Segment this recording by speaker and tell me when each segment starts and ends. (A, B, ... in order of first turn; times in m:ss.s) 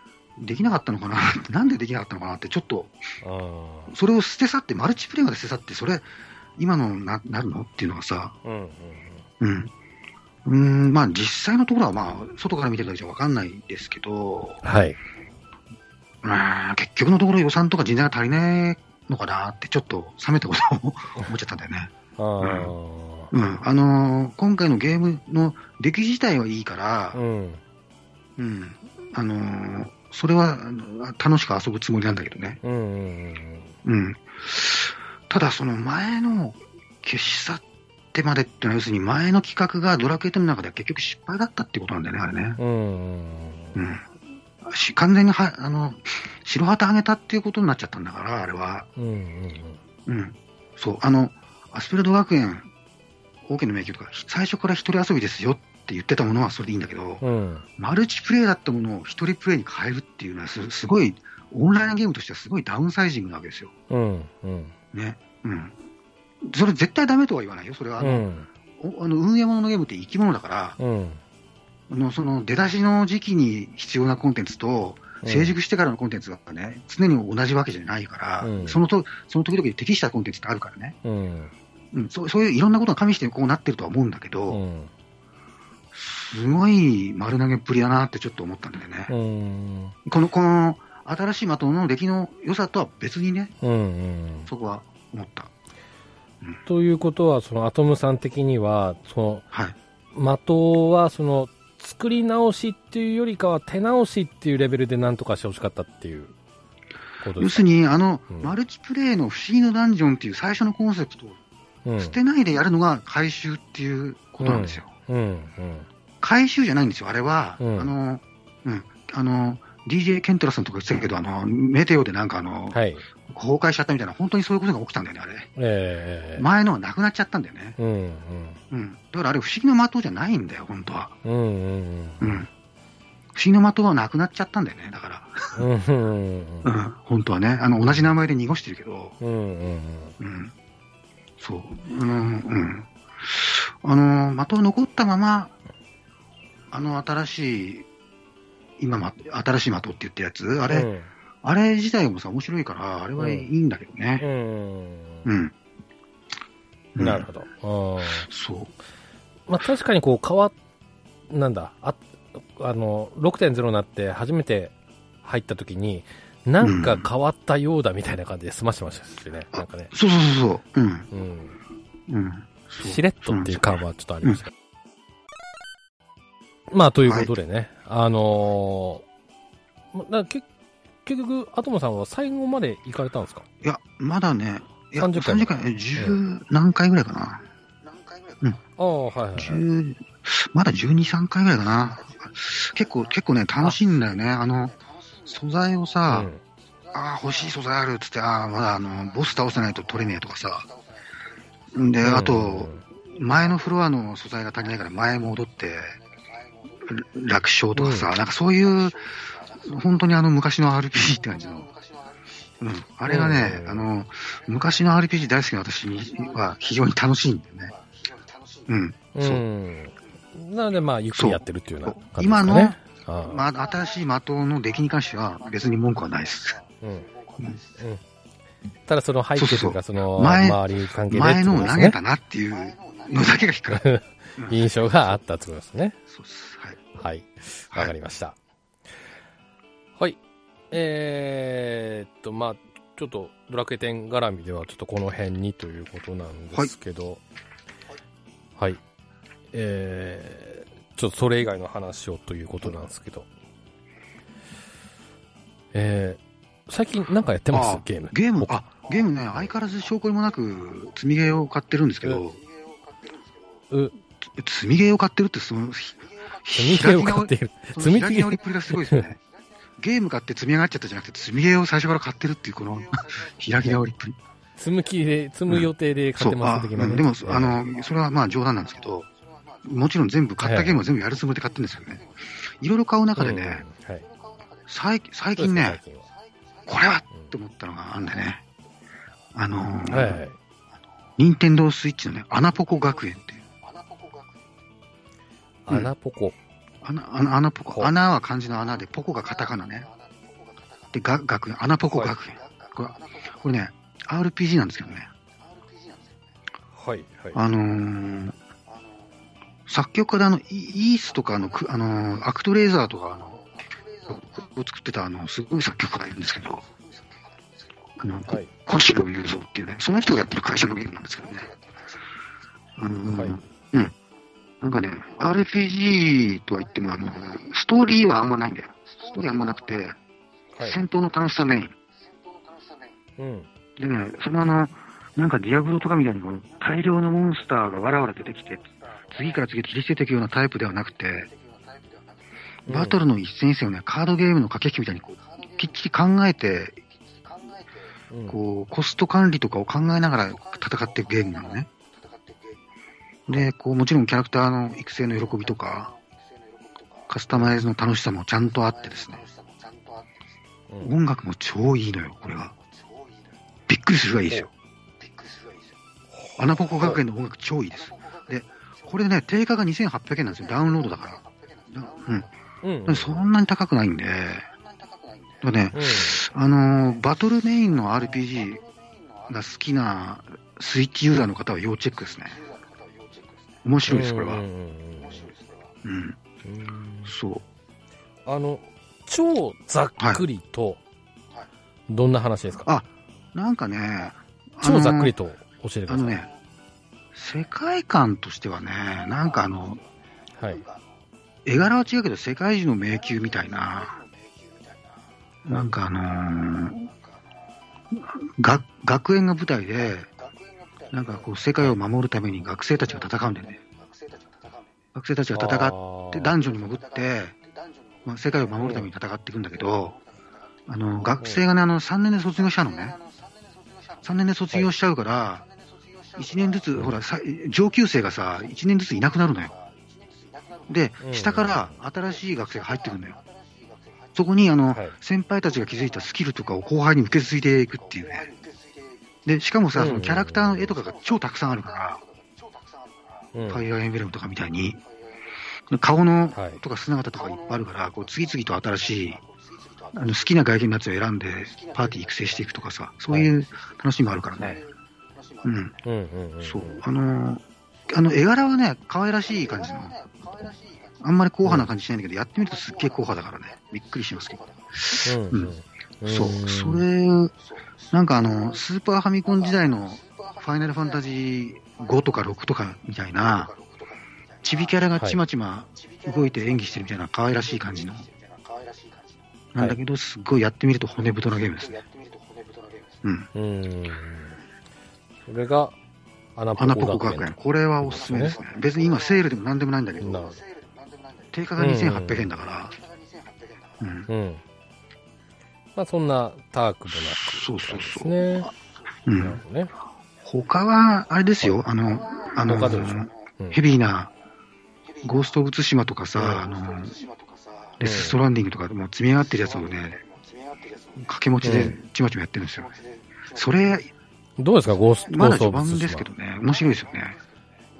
0:00.4-0:02.9 A
0:03.2-0:03.9 B
0:03.9-0:06.0 A
0:06.6-0:08.4 A
0:08.4-0:09.3 B
0:09.4-0:09.7 A
0:10.4-0:14.6 A
0:14.6-0:15.0 B
0:16.2-0:22.7 A
0:22.2-0:23.3 B
0:23.3-0:27.2 A
0:27.1-0:27.6 B
0:28.4-0:32.6 A
0:32.6-0:33.7 B
0:33.8-0:37.6 A
0:38.1-0:42.6 A
0:42.6-0:43.8 B
0:43.8-0:44.1 A
0:44.6-0:48.9 A
0:49.0-0:49.8 B
0:50.0-0:52.7 A
0:53.4-0:57.2 A
0:57.2-0:57.6 B
0:57.8-1:03.7 A
1:03.9-1:04.7 B
1:04.9-1:05.7 A
1:06.4-1:08.2 A
1:08.0-1:08.5 B
1:08.8-1:10.8 A
1:10.8-1:11.2 B
1:11.9-1:21.0 A
1:15.2-1:15.5 B
1:18.4-1:18.8 B
1:21.0-1:21.5 B
1:21.9-1:24.6 A
1:24.5-1:24.9 B
1:25.9-1:29.1 A
1:29.1-1:29.9 B
1:30.0-1:33.5 A
1:33.6-1:34.5 B
1:34.5-1:35.5 A
1:36.6-1:39.4 B
1:40.1-1:46.3 B
1:47.2-1:47.6 B
1:47.4-1:51.4 A
1:51.8-1:52.2 B
1:52.0-1:54.9 A
1:54.4-1:55.9 B
1:56.2-2:05.5 A
1:57.6-1:57.9 B
2:02.7-2:03.0 B
2:05.6-2:06.4 B
2:06.4-2:07.8 A
2:07.8-2:08.6 B
2:08.7-2:11.1 A
2:11.2-2:12.4 B
2:12.2-2:12.5 A
2:13.3-2:15.6 A
2:15.5-2:16.7 B
2:16.6-2:19.2 A
2:17.8-2:18.1 B
2:19.2-2:20.1 B
2:20.2-2:20.5 A
2:21.4-2:25.5 A
2:26.7-2:27.9 A
2:28.8-2:30.9 A
2:30.7-2:31.1 B
2:31.4-2:34.2 A
2:33.2-2:33.5 B
2:34.2-2:35.3 B
2:35.2-2:35.5 A
2:37.0-2:37.2 A
2:37.0-2:38.3 B
2:38.3-2:38.7 A
2:39.5-2:40.5 B
2:41.3-2:44.7 B
2:45.2-2:49.9 B
2:46.6-2:47.1 A
2:49.5-2:51.1 A
2:51.1-2:51.6 B
2:52.1-2:54.4 A
2:52.8-2:54.5 B
2:56.7-2:59.0 B
2:57.0-2:57.3 A
2:59.9-3:00.5 B
3:01.0-3:03.4 B
3:03.6-3:07.4 A
3:05.0-3:06.2 B
3:08.8-3:09.6 B
3:09.3-3:16.3 A
3:16.1-3:16.4 B
3:16.9-3:20.7 A
3:21.7-3:26.0 A
3:22.0-3:22.8 B
3:26.7-3:31.8 A
3:27.7-3:28.1 B
3:32.6-3:37.8 A
3:33.0-3:33.9 B
3:38.6-3:39.4 A
3:39.1-3:43.4 B
3:41.1-3:46.6 A
3:46.8-3:47.1 B
3:47.7-3:48.0 B
3:48.9-3:52.0 B
3:49.4-3:53.8 A
3:53.7-3:56.0 B
3:54.4-3:54.7 A
3:56.1-3:56.8 A
3:56.9-3:58.4 B
4:00.7-4:07.2 B
4:09.5-4:13.3 B
4:15.7-4:18.5 B
4:17.5-4:22.4 A
4:24.2-4:29.2 A
4:26.5-4:29.0 B
4:29.8-4:34.2 A
4:34.6-4:37.6 B
4:35.5-4:39.1 A
4:39.6-4:43.6 A
4:40.4-4:40.8 B
4:43.2-4:44.1 B
4:44.6-4:45.8 A
4:45.4-4:46.0 B
4:46.6-4:48.4 A
4:49.3-4:50.2 A
4:49.9-4:50.4 B
4:51.2-4:53.5 A
4:55.6-4:56.4 B
4:56.8-4:59.9 A
5:00.9-5:05.1 A
5:06.7-5:07.4 B
5:07.3-5:08.4 A
5:09.7-5:16.7 A
5:18.0-5:21.6 A
5:22.8-5:23.9 A
5:23.1-5:23.4 B
5:24.6-5:30.0 A
5:30.6-5:31.7 A
5:33.2-5:33.5 B
5:33.8-5:41.3 A
5:42.7-5:43.0 B
5:42.7-5:46.8 A
5:48.1-5:48.4 B
5:48.3-5:51.7 A
5:53.3-5:55.9 A
5:57.1-5:59.3 A
6:00.8-6:02.6 A
6:03.7-6:04.5 A
6:06.2-6:07.0 B
6:06.4-6:12.3 A
6:12.6-6:13.3 B
6:12.9-6:14.5 A
6:15.4-6:18.6 A
6:15.7-6:16.2 B
6:19.2-6:22.4 A
6:23.6-6:24.4 A
6:23.8-6:25.3 B
6:25.8-6:26.2 A
6:26.4-6:27.1 B
6:27.0-6:27.4 A
6:28.2-6:30.8 B
6:31.9-6:32.7 B
6:32.6-6:35.1 A
6:34.6-6:36.2 B
6:35.9-6:36.3 A
6:37.1-6:39.8 A
6:40.4-6:40.6 B
6:41.4-6:44.0 A
6:45.4-6:46.9 A
6:47.9-6:50.1 A
6:50.9-6:53.6 A
6:54.9-6:57.4 A
6:55.3-6:56.4 B
6:58.0-7:00.0 A
6:58.6-6:58.9 B
7:00.7-7:03.0 A
7:01.2-7:01.4 B
7:04.0-7:05.4 A
7:06.1-7:09.6 A
7:10.7-7:13.2 A
7:11.0-7:11.7 B
7:14.1-7:18.3 A
7:14.7-7:15.0 B
7:19.2-7:22.0 A
7:19.7-7:20.7 B
7:23.3-7:23.6 B
7:23.4-7:24.8 A
7:25.7-7:29.2 A
7:26.3-7:26.6 B
7:29.9-7:34.6 A
7:35.4-7:35.7 A
7:35.8-7:36.8 B
7:36.4-7:40.2 A
7:41.0-7:45.5 A
7:45.0-7:46.8 B
7:46.1-7:47.3 A
7:47.9-7:53.5 A
7:54.4-7:58.1 A
7:59.5-8:01.9 A
8:03.0-8:03.3 A
8:03.3-8:04.4 B
8:05.3-8:05.7 B
8:06.4-8:08.4 B
8:06.6-8:10.2 A
8:10.0-8:10.4 B
8:11.3-8:12.8 A
8:11.6-8:12.4 B
8:13.8-8:14.1 A
8:14.1-8:14.4 B
8:15.8-8:18.5 B
8:17.0-8:18.5 A
8:19.0-8:19.4 A
8:19.2-8:19.7 B
8:20.2-8:24.1 A
8:22.4-8:23.6 B
8:25.0-8:27.0 A
8:26.2-8:26.5 B
8:27.8-8:30.0 A
8:27.8-8:28.2 B
8:30.9-8:33.9 A
8:31.4-8:31.8 B
8:34.4-8:36.1 B
8:35.1-8:37.2 A